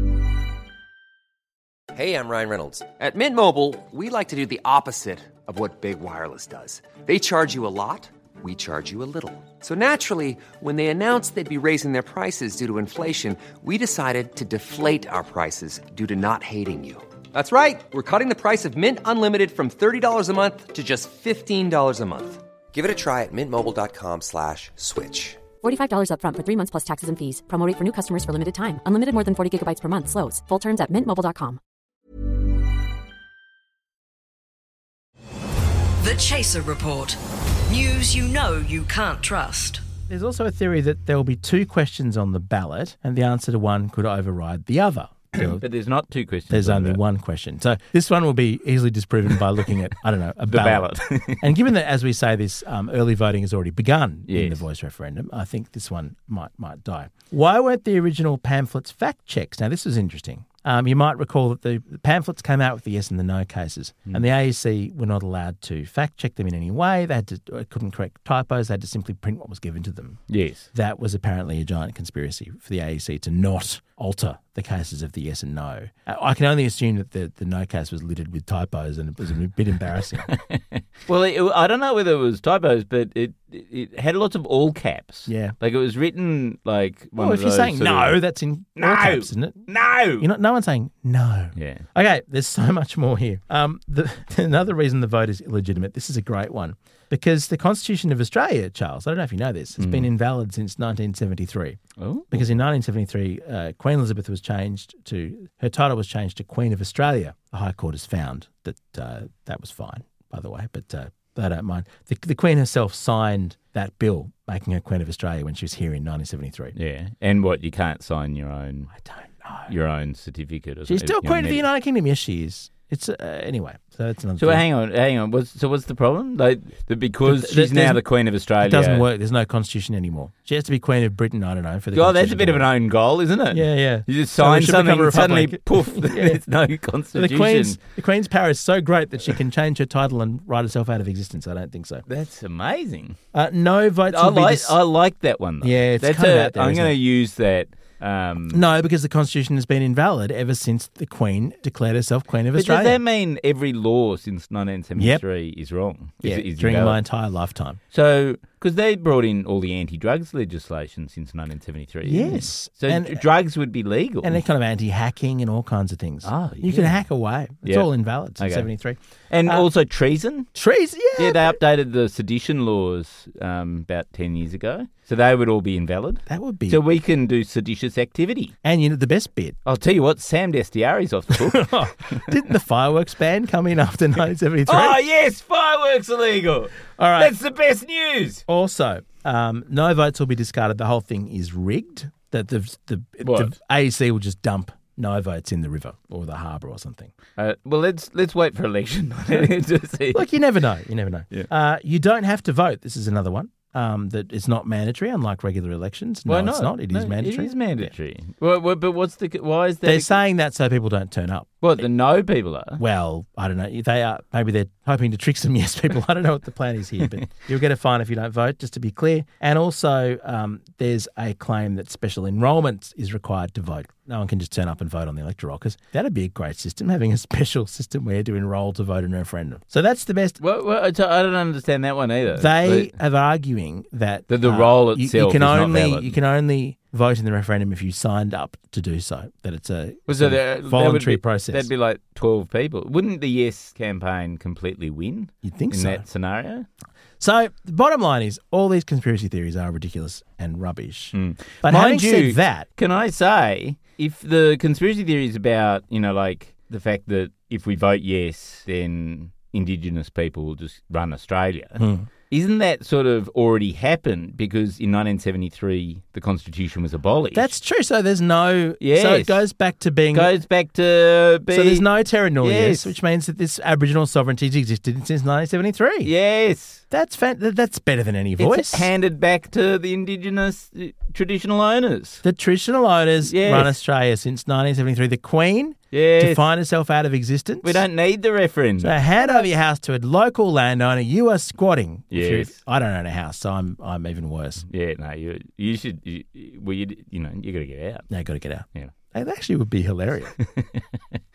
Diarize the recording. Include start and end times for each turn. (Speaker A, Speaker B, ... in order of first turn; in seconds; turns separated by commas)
Speaker A: 1.9-25.4, Speaker B: 25.6-31.6, Speaker C: 36.0-39.8, Speaker D: 40.1-45.6, Speaker E: 45.3-47.0, Speaker D: 46.5-50.9, Speaker E: 50.5-51.5, Speaker D: 51.4-70.2, Speaker E: 54.3-54.6, Speaker E: 70.3-70.7, Speaker D: 70.7-80.3, Speaker E: 80.3-88.2, Speaker D: 85.3-85.5, Speaker D: 87.2-89.6, Speaker E: 88.8-90.2, Speaker D: 90.2-101.8, Speaker E: 91.5-91.8, Speaker E: 99.8-100.1, Speaker E: 102.0-102.5, Speaker D: 102.3-116.7, Speaker E: 116.7-118.9, Speaker D: 119.0-119.7, Speaker E: 119.7-121.6, Speaker D: 120.9-124.6, Speaker E: 124.4-129.1, Speaker D: 127.2-128.0, Speaker D: 128.6-132.7, Speaker E: 131.9-137.8, Speaker D: 133.5-136.4, Speaker D: 137.1-142.0, Speaker E: 142.1-143.2, Speaker D: 143.3-144.8, Speaker E: 144.1-148.6, Speaker D: 145.6-146.9, Speaker D: 148.5-153.0, Speaker E: 152.5-157.0, Speaker D: 154.9-155.2, Speaker D: 156.2-157.8, Speaker E: 157.9-164.4, Speaker D: 162.0-163.2, Speaker D: 164.2-169.7, Speaker E: 166.2-167.0, Speaker E: 167.6-168.7, Speaker E: 169.3-170.5, Speaker D: 170.5-171.6, Speaker E: 171.2-178.5, Speaker D: 176.3-176.8, Speaker D: 178.6-179.6, Speaker E: 179.6-182.3, Speaker D: 181.3-185.0, Speaker E: 184.7-188.4, Speaker D: 187.0-187.3, Speaker D: 188.5-197.1, Speaker E: 193.2-193.5, Speaker E: 197.4-200.3, Speaker D: 200.1-207.9, Speaker E: 206.2-210.2, Speaker D: 209.8-211.6, Speaker E: 211.6-212.8, Speaker D: 212.8-230.4, Speaker E: 230.4-232.9, Speaker D: 232.3-241.7, Speaker E: 234.3-236.2, Speaker E: 240.1-246.7, Speaker D: 245.4-246.0, Speaker D: 247.2-252.7, Speaker E: 251.1-261.8, Speaker D: 261.8-262.1, Speaker E: 262.3-267.5, Speaker D: 267.3-270.3, Speaker E: 268.8-269.4, Speaker E: 270.1-271.9, Speaker D: 271.5-276.1, Speaker E: 272.4-272.9, Speaker E: 276.0-276.8, Speaker D: 276.9-278.9, Speaker E: 278.4-282.2, Speaker D: 282.2-287.8, Speaker E: 283.3-283.7, Speaker E: 285.9-286.4, Speaker E: 287.6-289.2, Speaker D: 288.8-294.6, Speaker E: 292.1-292.6, Speaker E: 294.7-298.1, Speaker D: 298.1-300.3, Speaker E: 300.4-300.8